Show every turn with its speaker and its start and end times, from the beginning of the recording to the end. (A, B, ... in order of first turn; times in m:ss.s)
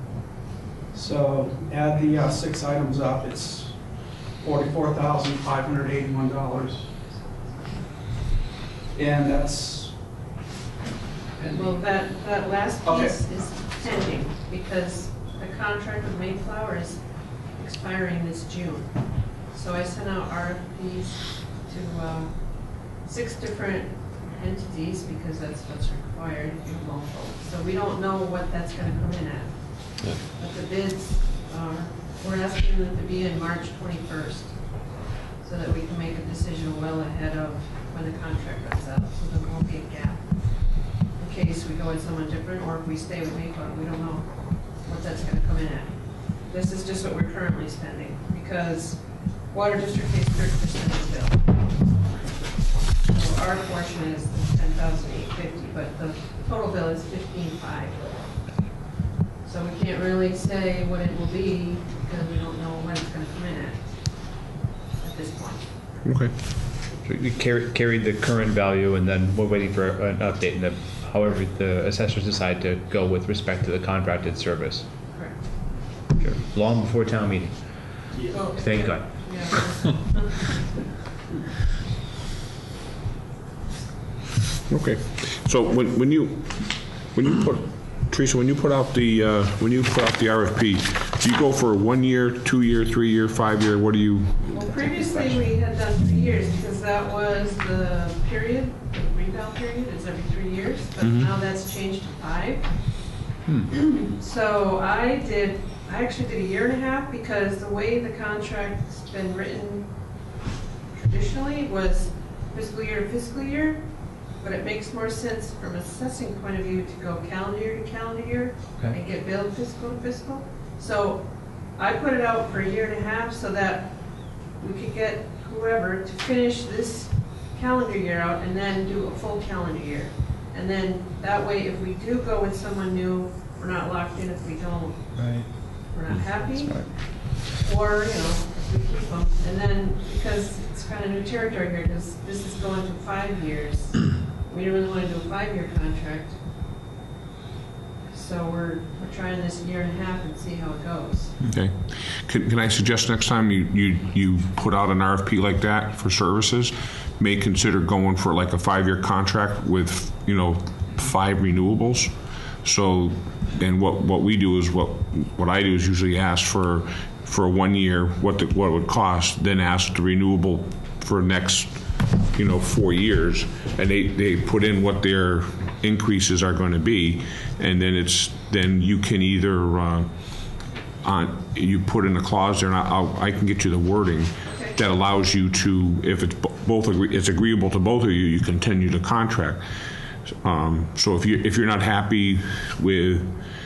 0:00.9-0:06.9 A
0:08.9-0:10.0 A
0:11.5-0:58.4 B
0:12.8-0:13.8 A
0:59.4-1:04.4 B
1:05.0-1:06.1 B
1:06.0-1:06.3 C
1:07.0-1:14.8 D
1:15.1-1:15.7 B
1:16.2-1:19.5 D
1:18.2-1:20.6 B
1:24.7-1:34.7 C
1:34.5-1:50.4 B
1:41.0-1:41.3 C
1:50.9-2:26.4 B
2:15.1-2:16.9 D
2:28.1-2:31.4 B
2:31.5-3:09.6 C
3:04.5-3:04.8 B
3:10.3-3:13.4 C